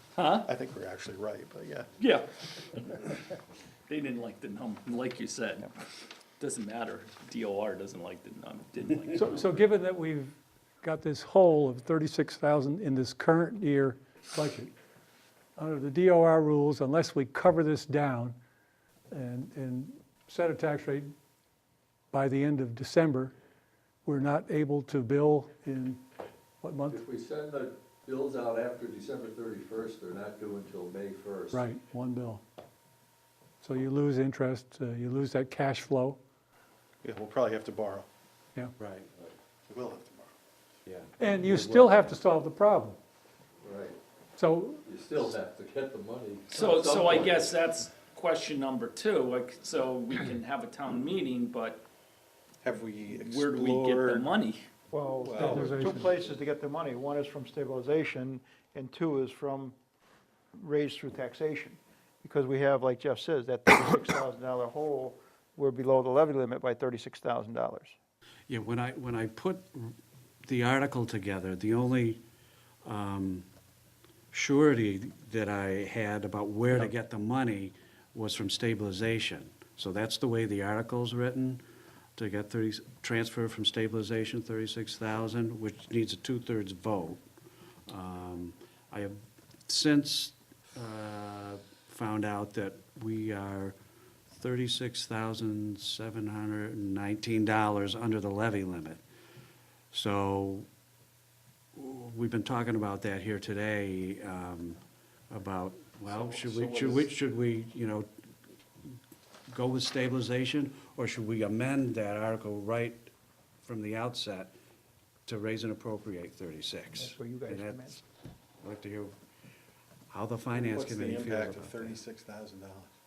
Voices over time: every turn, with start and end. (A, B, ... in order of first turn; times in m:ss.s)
0:00.1-0:00.5 A
0:00.4-0:01.9 B
0:02.0-0:03.1 A
0:03.9-0:05.7 A
0:06.4-0:09.4 A
0:09.1-0:14.7 C
0:15.6-0:18.4 C
0:19.1-0:21.1 C
0:22.1-0:23.3 C
0:24.0-0:26.0 C
0:26.6-0:27.0 C
0:26.9-0:31.6 D
0:31.5-0:32.4 C
0:33.6-0:36.2 C
0:37.0-0:38.1 B
0:38.8-0:39.1 E
0:39.7-0:40.3 B
0:40.8-0:41.9 E
0:41.2-0:43.0 C
0:43.6-0:44.0 D
0:44.4-0:44.8 C
0:44.9-0:47.5 D
0:46.5-0:51.8 A
0:52.6-0:54.3 B
0:53.2-0:54.6 A
0:54.9-0:59.8 F
0:55.2-0:56.0 B
0:55.4-0:56.1 C
1:00.5-1:07.9 F
1:08.5-1:12.2 E
1:12.8-1:13.4 E
1:14.3-1:21.6 E
1:22.2-1:27.2 E
1:27.9-1:33.8 E
1:34.3-1:39.0 E
1:39.9-1:40.7 E
1:41.8-1:48.1 E
1:46.0-1:47.1 B
1:49.5-1:53.0 E
1:53.6-1:54.5 E
1:55.2-1:58.0 E
1:57.0-1:58.0 F
1:58.6-1:59.1 E
2:00.1-2:02.0 E
2:00.6-2:02.9 B